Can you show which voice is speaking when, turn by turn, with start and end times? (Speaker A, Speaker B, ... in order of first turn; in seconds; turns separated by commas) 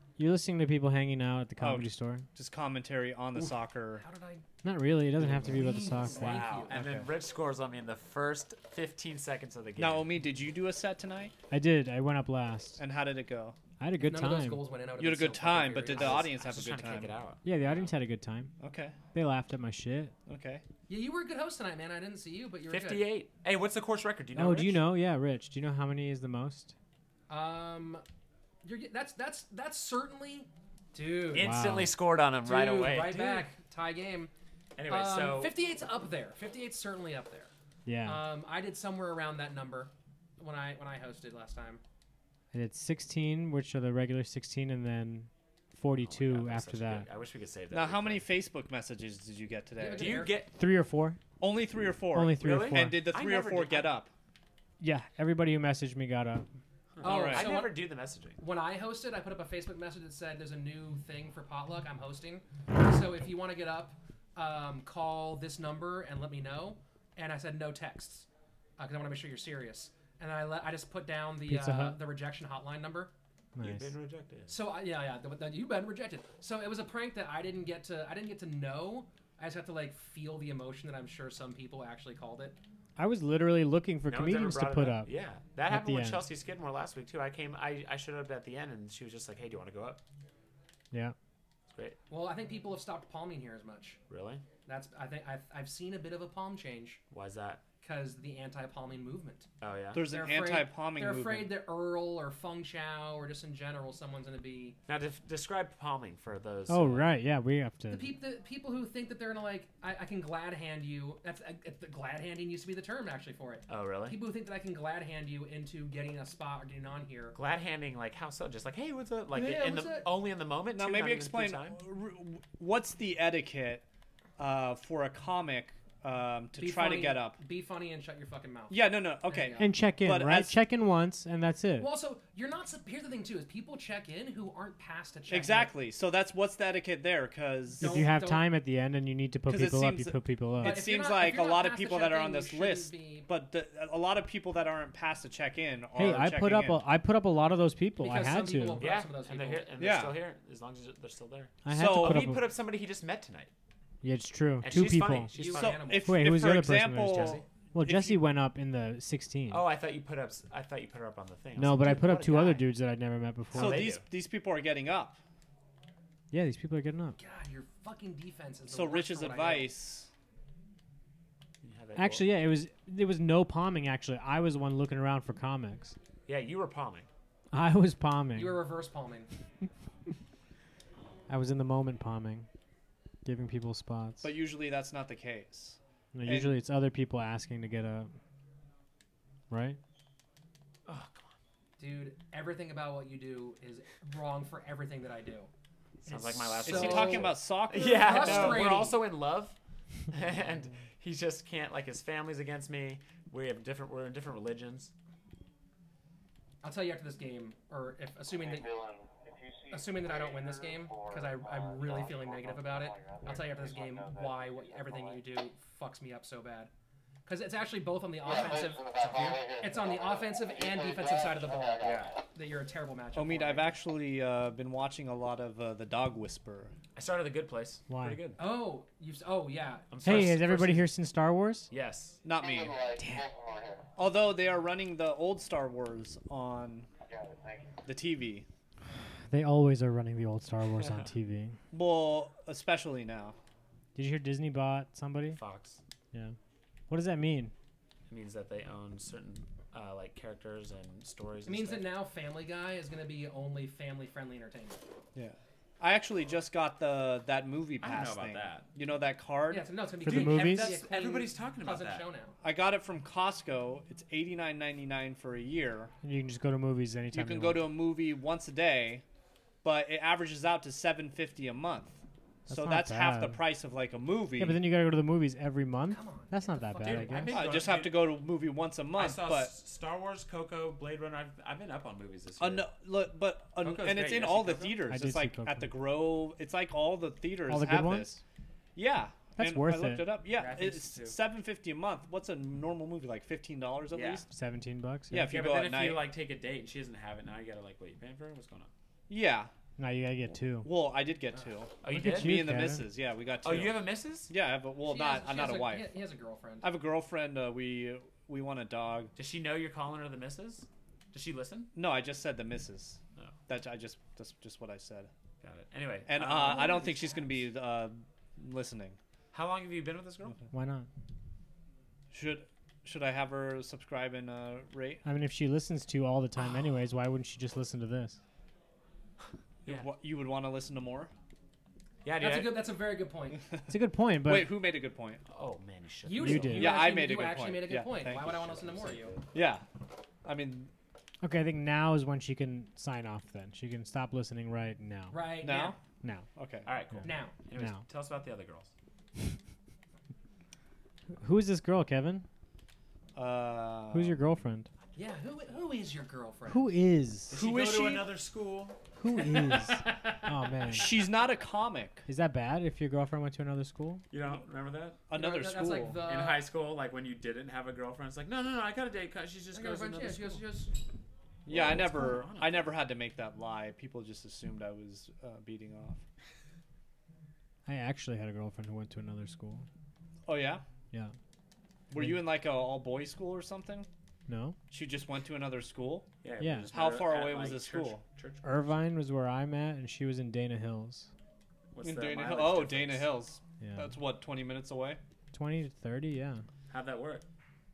Speaker A: 0.2-2.3, Speaker B: 1.6-4.0, Speaker C: 3.4-4.4, Speaker A: 4.6-6.5, Speaker D: 5.2-10.1, Speaker C: 5.4-6.8, Speaker B: 6.7-7.1, Speaker B: 9.8-11.3, Speaker A: 11.5-12.8, Speaker B: 12.8-13.6, Speaker A: 13.8-14.6, Speaker C: 14.0-16.3, Speaker B: 15.0-17.2, Speaker D: 15.9-17.9, Speaker A: 17.4-18.5, Speaker B: 18.6-19.0, Speaker A: 19.1-20.1, Speaker B: 20.3-20.6, Speaker C: 20.9-23.1, Speaker D: 22.7-24.8, Speaker A: 24.4-26.7, Speaker C: 27.3-28.0, Speaker C: 28.6-31.5, Speaker D: 31.3-33.5, Speaker A: 31.4-31.9, Speaker C: 32.4-34.3, Speaker D: 34.8-35.5, Speaker C: 34.9-37.5, Speaker A: 37.9-38.2, Speaker C: 38.0-41.8, Speaker A: 42.5-47.1, Speaker D: 46.0-48.3, Speaker B: 47.7-50.2, Speaker C: 49.8-50.4, Speaker D: 49.9-50.5, Speaker A: 50.5-51.2, Speaker B: 51.4-54.1, Speaker A: 52.1-53.0, Speaker D: 52.4-54.0, Speaker A: 54.8-56.5, Speaker D: 57.0-58.4, Speaker C: 57.0-68.3, Speaker B: 57.0-57.5, Speaker C: 68.8-73.1, Speaker A: 71.5-72.0, Speaker A: 73.6-73.9, Speaker D: 73.6-74.6, Speaker C: 74.5-82.6, Speaker A: 83.0-85.1, Speaker D: 84.1-90.0, Speaker A: 85.7-86.2, Speaker D: 91.7-92.0, Speaker C: 92.1-94.0, Speaker D: 94.1-94.4, Speaker C: 94.7-97.0, Speaker D: 97.1-97.7, Speaker C: 97.8-99.5, Speaker D: 99.6-100.1, Speaker B: 99.9-101.6, Speaker C: 100.1-104.8, Speaker D: 104.9-107.1, Speaker A: 106.7-108.1, Speaker C: 107.9-117.4, Speaker D: 113.7-114.2, Speaker D: 117.3-121.8, Speaker C: 119.3-120.1, Speaker B: 120.7-123.8, Speaker B: 124.4-127.4, Speaker C: 126.6-129.8, Speaker B: 128.7-130.6, Speaker A: 129.6-131.9, Speaker C: 131.8-135.7, Speaker B: 135.3-138.0, Speaker C: 137.8-138.5, Speaker A: 137.8-140.8, Speaker B: 139.5-146.9, Speaker C: 140.6-143.3, Speaker A: 146.0-148.8, Speaker C: 148.0-149.7, Speaker D: 148.8-153.5, Speaker B: 149.8-150.2, Speaker A: 151.6-152.4, Speaker B: 151.7-152.3, Speaker A: 154.0-155.3, Speaker D: 154.6-156.0, Speaker C: 155.3-156.3, Speaker B: 155.5-158.2, Speaker A: 155.9-159.7, Speaker D: 157.0-157.4, Speaker D: 159.5-162.7, Speaker A: 161.6-163.9, Speaker D: 163.5-164.1, Speaker B: 163.5-165.2, Speaker A: 166.3-167.2, Speaker C: 167.2-169.7, Speaker B: 168.7-170.1, Speaker D: 171.6-172.5, Speaker A: 172.0-176.0, Speaker D: 176.3-177.1, Speaker A: 177.5-178.6, Speaker C: 178.3-179.3, Speaker A: 181.3-182.5, Speaker A: 183.2-184.3, Speaker B: 184.2-186.6, Speaker A: 186.1-188.1, Speaker A: 189.5-189.8, Speaker D: 190.9-191.3, Speaker C: 191.8-195.5, Speaker C: 196.0-199.0, Speaker D: 196.1-199.6, Speaker B: 196.7-198.7, Speaker D: 200.1-204.9, Speaker C: 206.6-208.8, Speaker C: 209.7-216.7, Speaker C: 217.3-218.9, Speaker D: 218.9-219.5, Speaker C: 219.5-223.7, Speaker D: 221.8-222.2, Speaker B: 223.2-226.7, Speaker D: 226.9-228.4, Speaker A: 227.9-228.2, Speaker C: 228.4-230.3, Speaker D: 229.9-230.9, Speaker A: 230.0-231.7, Speaker D: 231.7-232.2, Speaker B: 232.2-232.8, Speaker A: 233.0-233.3, Speaker B: 234.0-236.9, Speaker B: 237.8-238.5, Speaker A: 239.3-241.6, Speaker B: 241.7-243.4, Speaker A: 243.9-245.4, Speaker D: 245.3-245.8, Speaker A: 246.9-247.5, Speaker D: 248.1-251.9, Speaker C: 251.5-254.8, Speaker B: 255.2-259.7, Speaker D: 257.8-258.7, Speaker C: 259.5-262.4, Speaker A: 260.0-260.7, Speaker D: 260.1-262.1, Speaker B: 262.4-265.9, Speaker A: 266.0-267.7, Speaker B: 267.1-269.0, Speaker B: 269.6-274.6, Speaker A: 272.5-273.4, Speaker A: 274.4-277.4, Speaker C: 275.9-277.5, Speaker D: 276.8-278.1, Speaker B: 277.3-279.5, Speaker D: 278.9-282.7, Speaker B: 282.4-288.2, Speaker D: 283.6-284.9, Speaker A: 284.9-285.7, Speaker A: 287.5-288.2, Speaker B: 288.8-294.3, Speaker A: 289.4-290.2, Speaker D: 290.3-291.2, Speaker D: 293.9-294.2, Speaker A: 294.3-295.3, Speaker B: 295.1-296.1, Speaker D: 295.2-298.7, Speaker B: 299.1-299.5, Speaker A: 299.8-300.7, Speaker B: 300.6-305.9, Speaker D: 301.8-302.5, Speaker A: 301.9-302.9, Speaker D: 303.4-304.3, Speaker C: 304.8-306.7, Speaker B: 306.6-309.1, Speaker D: 309.2-311.7, Speaker B: 311.7-315.1, Speaker D: 315.4-317.0, Speaker B: 316.1-319.0, Speaker C: 316.4-317.2, Speaker D: 319.3-320.4, Speaker A: 320.5-320.9, Speaker B: 322.1-325.0, Speaker A: 325.0-328.2, Speaker B: 329.6-331.1, Speaker D: 332.1-332.7, Speaker C: 332.2-333.4, Speaker A: 333.7-334.5, Speaker B: 334.2-335.2, Speaker D: 335.3-336.9, Speaker C: 336.1-339.2, Speaker A: 336.2-336.8, Speaker B: 336.5-338.6, Speaker D: 338.6-339.1, Speaker B: 339.3-339.6, Speaker B: 340.2-340.7, Speaker A: 341.2-345.2, Speaker C: 345.1-345.8, Speaker B: 345.4-345.8, Speaker B: 346.4-346.7, Speaker D: 346.6-348.7, Speaker A: 347.0-347.8, Speaker C: 347.0-347.3, Speaker A: 351.2-352.3, Speaker B: 353.1-354.2, Speaker A: 353.9-354.7, Speaker C: 354.9-356.8, Speaker A: 356.5-357.4, Speaker D: 357.3-360.9, Speaker B: 357.3-358.1, Speaker A: 359.0-360.9, Speaker B: 360.7-362.1, Speaker A: 362.1-364.1, Speaker D: 364.1-365.0, Speaker B: 365.1-366.0, Speaker C: 365.1-366.5, Speaker D: 366.0-370.4, Speaker C: 369.5-370.7, Speaker B: 371.5-376.0, Speaker D: 371.5-372.7, Speaker A: 377.7-379.7, Speaker B: 380.3-380.6, Speaker B: 381.9-383.9, Speaker A: 384.3-384.6, Speaker B: 384.7-386.1, Speaker D: 386.2-388.7, Speaker A: 386.4-386.7, Speaker B: 386.7-388.0, Speaker A: 388.4-391.1, Speaker D: 391.7-393.1, Speaker B: 391.8-395.0, Speaker A: 393.6-393.9, Speaker A: 395.3-396.4, Speaker D: 396.7-397.2